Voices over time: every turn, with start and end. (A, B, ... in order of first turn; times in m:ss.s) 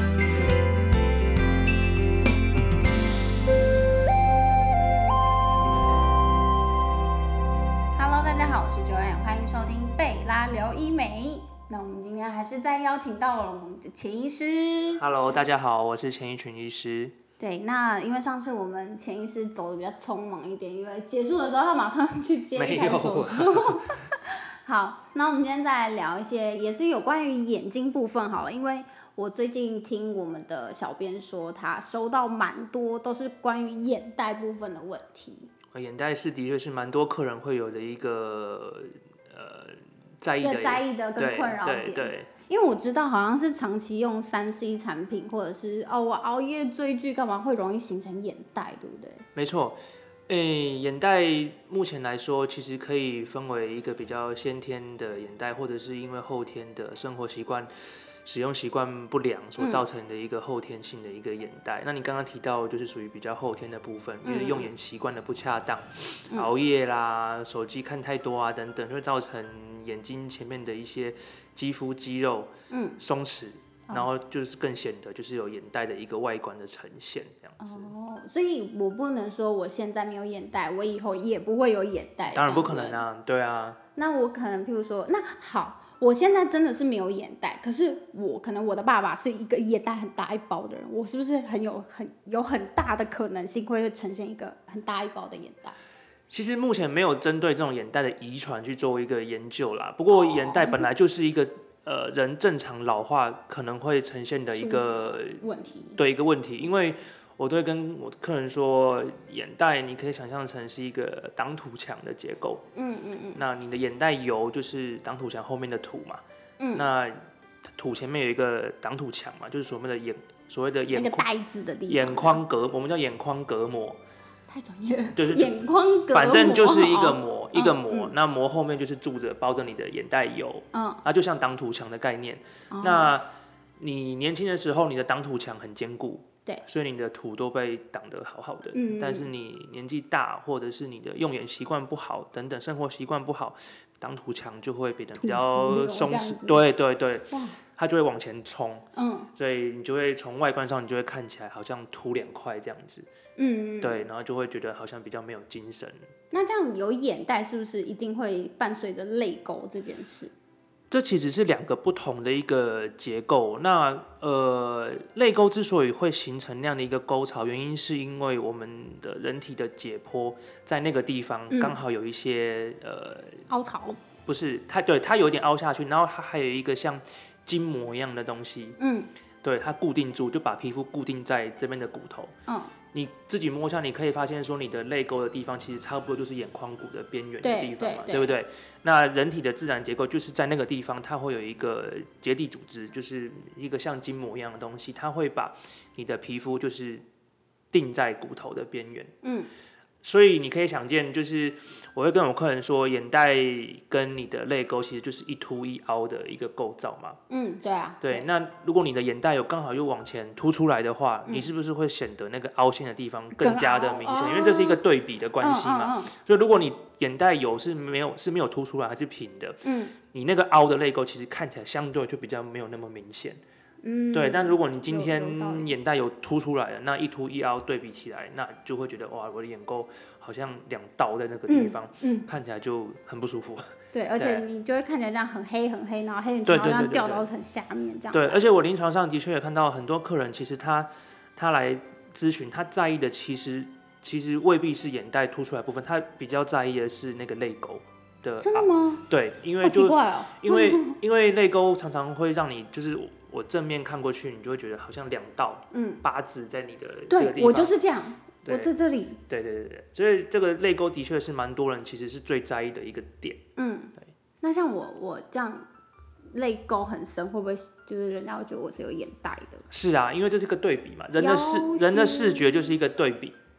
0:07.9-0:15.0 A
0:15.0-0:17.2 B
0:17.4-0:35.5 A
0:22.6-0:23.9 B
0:35.7-0:42.3 B
0:40.4-0:49.2 A
0:49.3-0:57.7 B
0:58.2-1:17.9 B
1:04.2-1:04.7 A
1:12.7-1:13.0 A
1:17.6-1:23.0 A
1:22.3-1:23.8 B
1:24.0-1:35.8 A
1:36.3-1:45.4 B
1:40.1-1:40.9 A
1:44.5-1:46.0 A
1:46.0-1:52.6 B
1:52.8-1:53.4 A
1:53.3-1:56.2 B
1:56.6-1:56.9 A
1:56.7-2:01.2 B
2:00.9-2:02.4 A
2:01.9-2:04.0 B
2:04.5-2:08.1 A
2:05.2-2:05.5 B
2:06.1-2:13.2 B
2:10.7-2:11.0 A
2:12.7-2:13.1 A
2:13.8-2:33.1 B
2:18.7-2:19.3 A
2:25.2-2:26.6 A
2:27.3-2:27.6 A
2:28.9-2:29.3 A
2:33.4-2:34.0 A
2:33.8-2:36.0 B
2:36.3-2:40.3 A
2:40.9-2:53.4 B
2:51.5-2:51.8 A
2:53.5-2:54.0 A
2:54.2-2:58.8 B
2:58.8-2:59.1 A
2:59.4-3:02.3 B
3:02.5-3:02.7 A
3:02.9-3:17.0 B
3:07.4-3:08.4 A
3:17.7-3:19.1 B
3:19.2-3:19.5 A
3:20.0-3:27.2 B
3:27.3-3:28.3 A
3:28.0-3:43.4 B
3:33.4-3:34.8 A
3:35.4-3:36.1 A
3:39.6-3:39.9 A
3:43.8-3:45.7 A
3:44.1-3:54.4 B
3:51.5-3:52.3 A
3:53.9-3:58.4 A
3:56.4-3:57.3 B
3:58.1-4:17.7 B
4:08.4-4:09.0 A
4:09.6-4:11.0 A
4:15.7-4:16.0 A
4:17.1-4:19.2 A
4:18.4-4:18.7 B
4:19.3-4:23.4 B
4:23.6-4:25.7 A
4:26.3-4:29.6 A
4:29.7-4:33.4 B
4:31.2-4:32.7 A